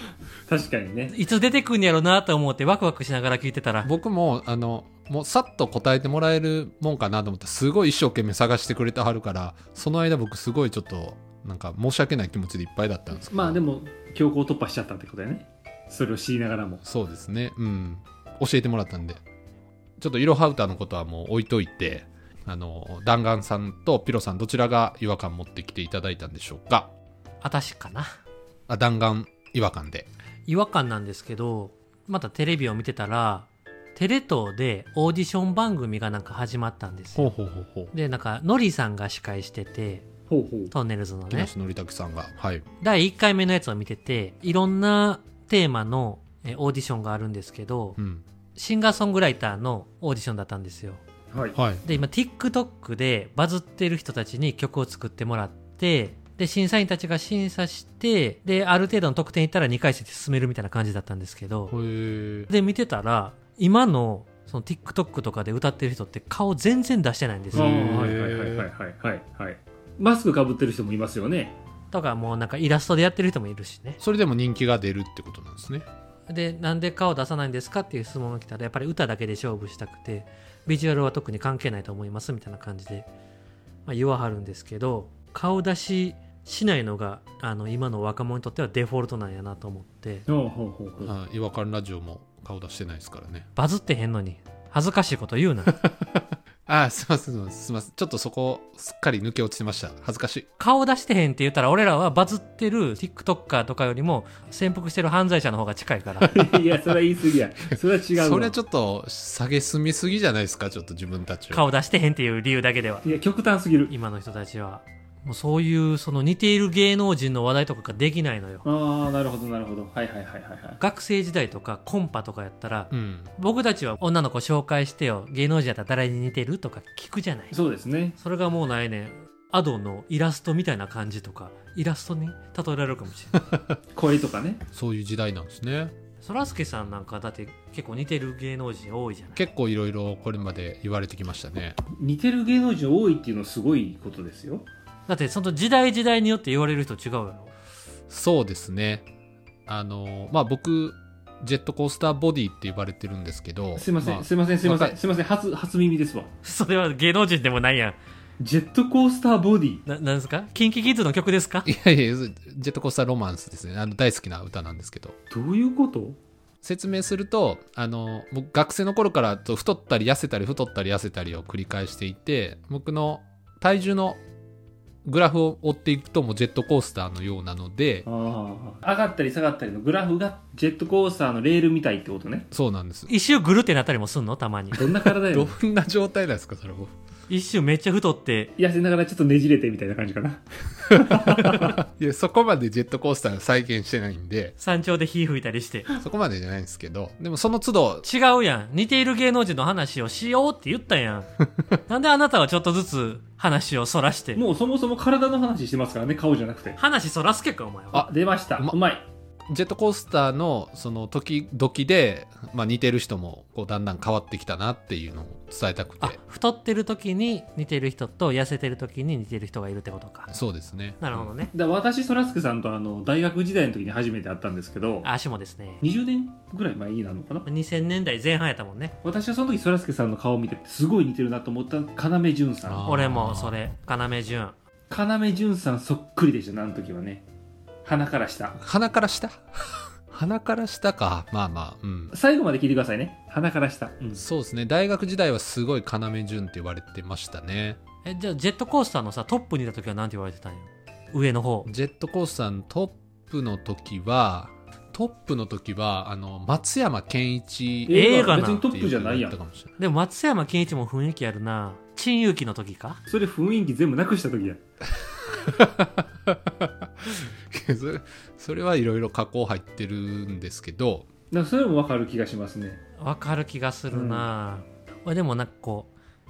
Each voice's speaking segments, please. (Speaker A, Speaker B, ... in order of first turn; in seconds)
Speaker A: 0.5-1.1, 13.3-16.8, 40.3-40.7, 51.3-51.6, 67.5-71.6, 90.3-91.1, 106.3-108.6, 113.0-113.9, 118.7-120.8, 127.5-128.2, 133.9-134.6, 142.0-144.7, 153.8-156.3, 158.4-159.8, 165.3-166.2, 178.1-182.5, 184.7-185.6, 188.6-191.8, 204.4-206.8, 208.0-209.1, 221.5-225.1, 225.8-227.5, 229.0-232.8, 234.9-237.2, 237.8-238.6, 242.1-244.2, 257.9-259.4, 263.1-264.6, 271.3-272.8, 273.9-274.3
Speaker B: 1.1-3.9, 27.4-28.1, 30.5-37.3, 37.9-40.1, 40.7-41.5, 42.8-48.0, 48.6-51.0, 51.8-61.7, 62.5-67.8, 71.9-74.0, 76.3-83.1, 83.9-90.3, 93.6-95.8, 100.6-106.4, 111.5-113.1, 113.9-118.6, 120.8-127.6, 128.2-133.4, 136.2-139.4, 145.1-147.5, 156.4-158.0, 159.9-161.7, 183.1-184.9, 187.3-188.5, 194.6-195.9, 198.0-201.3, 201.9-204.4, 206.8-208.1, 216.0-220.3, 221.0-221.5, 225.0-225.8, 227.4-228.9, 232.8-234.6, 248.1-251.7, 257.9-258.6, 259.8-263.0, 273.0-275.9
Speaker C: 3.8-13.6, 16.9-19.2, 20.0-26.9, 28.7-30.1, 37.1-37.9, 41.3-42.6, 48.0-48.2, 51.5-51.9, 61.7-62.5, 67.5-68.7, 74.0-75.8, 91.0-93.5, 95.7-100.5, 108.2-111.7, 122.9-123.3, 134.7-135.9, 139.4-141.8, 148.1-149.1, 149.7-155.0, 161.7-165.2, 166.6-174.2, 175.0-178.1, 182.5-183.1, 185.1-186.9, 191.1-194.6, 195.9-198.1, 207.9-208.8, 209.5-216.2, 220.3-221.3, 232.6-233.6, 238.6-242.1, 244.2-247.8, 251.7-259.7, 265.2-271.1